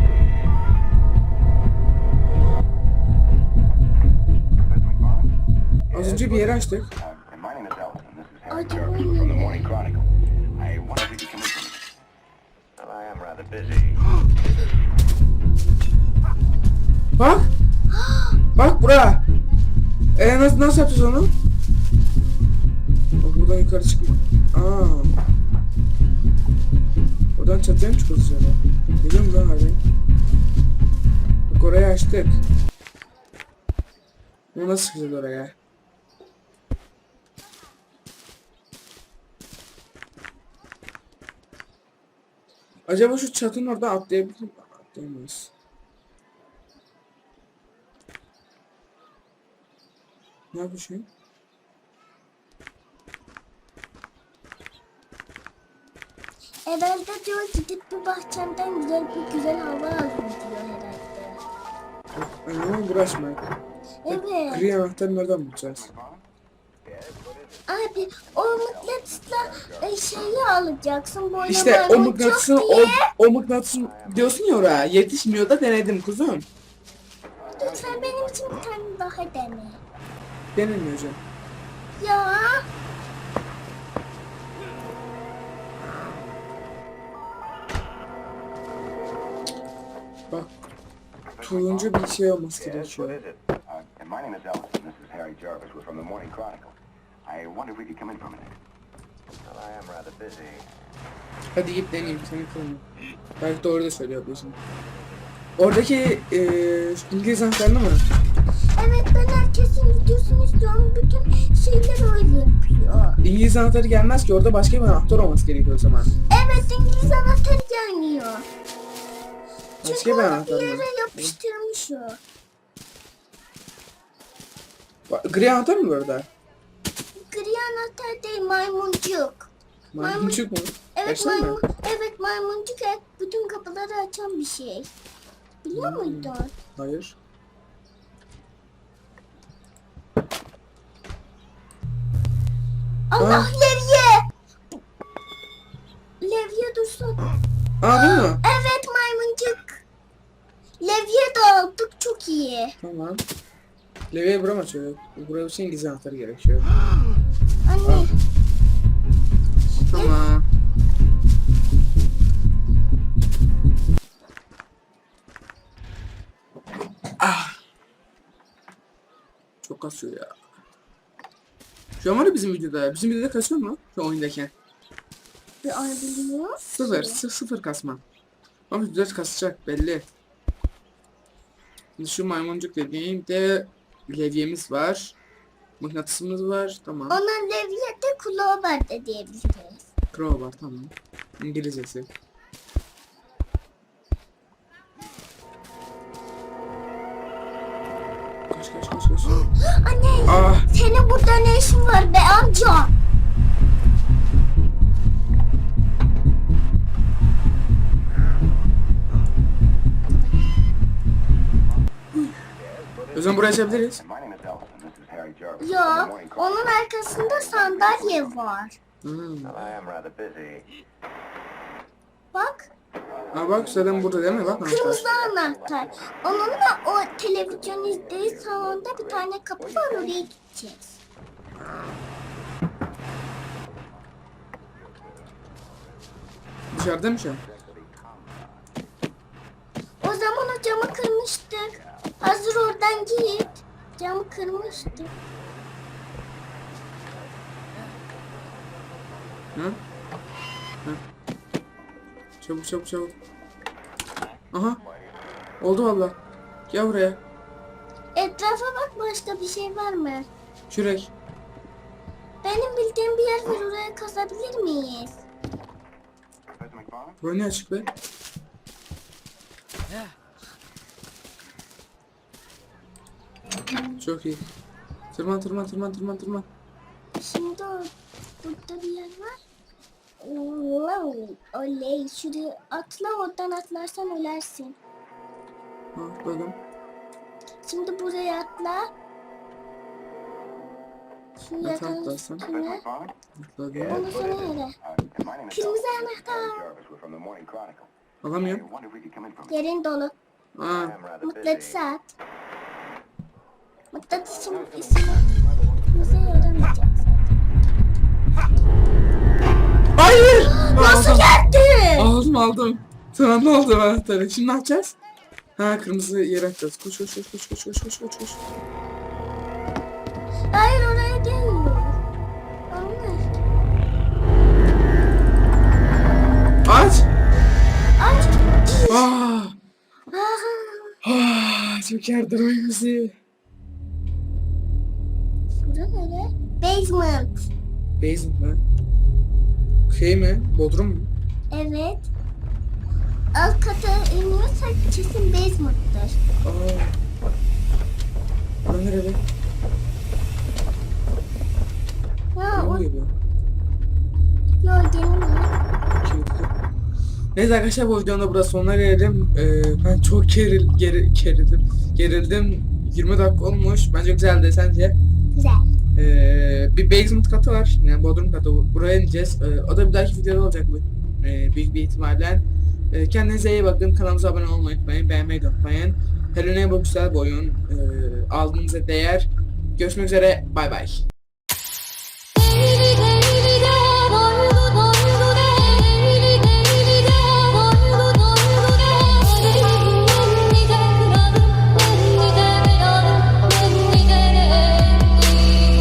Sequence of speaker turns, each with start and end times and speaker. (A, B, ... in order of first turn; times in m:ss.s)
0:05.9-0:06.9 A
0:07.2-0:08.4 B
0:08.5-0:09.8 C
0:10.6-0:11.7 B
0:12.8-0:14.0 B
0:17.2-0:17.5 A
0:17.9-0:18.4 C
0:18.6-0:19.2 A
0:20.2-0:21.3 A
0:23.2-0:25.2 A
0:27.4-0:29.8 A
0:31.5-0:32.4 A
0:34.5-0:35.6 A
0:42.9-0:45.5 A
0:50.5-0:51.1 A
0:56.7-1:01.4 C
1:02.2-1:03.4 A
1:04.0-1:04.7 C
1:04.1-1:05.9 A
1:07.0-1:07.3 B
1:07.7-1:13.1 C
1:11.5-1:16.5 A
1:17.6-1:19.8 C
1:20.6-1:21.2 A
1:22.0-1:22.7 C
1:31.4-1:33.2 A
1:34.0-1:36.7 B
1:37.3-1:38.5 B
1:39.5-1:40.6 B
1:41.5-1:42.8 A
1:43.4-1:44.6 A
1:45.6-1:48.0 A
1:48.8-1:53.2 C
1:53.2-1:56.1 A
1:56.3-1:58.5 C
1:59.8-2:01.4 A
1:59.8-2:02.2 C
2:05.1-2:06.3 A
2:07.2-2:10.4 C
2:09.9-2:11.6 A
2:11.0-2:14.9 C
2:15.6-2:16.5 C
2:15.7-2:17.2 A
2:23.1-2:24.2 C
2:23.2-2:23.5 A
2:26.2-2:27.2 C
2:27.8-2:28.4 A
2:27.9-2:29.8 C
2:30.8-2:32.8 C
2:32.8-2:33.2 A
2:34.1-2:36.7 A
2:37.6-2:38.1 C
2:39.9-2:40.2 C
2:39.9-2:40.5 A
2:47.2-2:47.6 A
2:49.6-2:50.4 A
2:52.0-2:54.5 A
2:55.6-2:57.2 C
2:56.8-2:58.0 A
2:58.7-3:00.1 A
3:02.0-3:05.2 A
3:05.8-3:07.2 A
3:07.1-3:09.9 C
3:10.1-3:12.1 A
3:18.5-3:19.4 A
3:19.6-3:22.9 C
3:20.2-3:20.7 A
3:33.1-3:34.0 A
3:34.1-3:35.4 B
3:35.6-3:38.8 C
3:39.0-3:39.7 A
3:39.6-3:40.6 B
3:42.3-3:42.7 C
3:43.3-3:45.1 A
3:44.6-3:51.0 C
3:56.7-3:57.4 A
3:57.7-3:58.5 B
4:00.0-4:05.1 C
4:09.6-4:09.8 A
4:12.4-4:13.2 A
4:14.5-4:14.8 A
4:15.6-4:16.2 A
4:16.7-4:17.2 A
4:18.2-4:20.3 C
4:20.7-4:21.1 A
4:22.4-4:25.2 C
4:27.2-4:27.9 A
4:34.0-4:34.4 A
4:35.1-4:36.5 A
4:37.2-4:39.4 C
4:40.2-4:44.8 C
4:46.0-4:46.6 A
4:47.6-4:48.9 C
4:51.4-4:52.8 C
4:51.6-4:52.5 A
4:53.4-4:54.1 A
4:53.9-4:54.8 C
4:55.5-4:56.6 C
4:56.7-4:57.8 B
4:58.2-4:58.7 A
4:58.8-4:59.3 B
4:59.5-5:00.2 C
5:00.6-5:01.0 A
5:01.2-5:02.1 C
5:03.9-5:07.2 C
5:10.0-5:11.3 A
5:10.3-5:12.1 C
5:12.0-5:15.0 A
5:15.6-5:18.4 A
5:20.5-5:22.0 C
5:22.7-5:23.2 C
5:26.6-5:27.1 A
5:28.0-5:29.1 C
5:28.9-5:29.6 A
5:30.1-5:31.0 C
5:31.0-5:33.2 A
5:35.6-5:37.4 C
5:38.0-5:38.6 A
5:39.9-5:41.1 A
5:41.5-5:42.1 C
5:43.4-5:46.2 C
5:46.4-5:47.0 A
5:48.7-5:49.2 A
5:52.4-5:52.8 C
5:52.6-5:53.1 A
5:54.6-5:55.5 C
5:56.0-5:56.5 A
5:57.4-6:05.0 A
6:05.4-6:05.7 C
6:06.0-6:21.0 A
6:23.8-6:35.3 C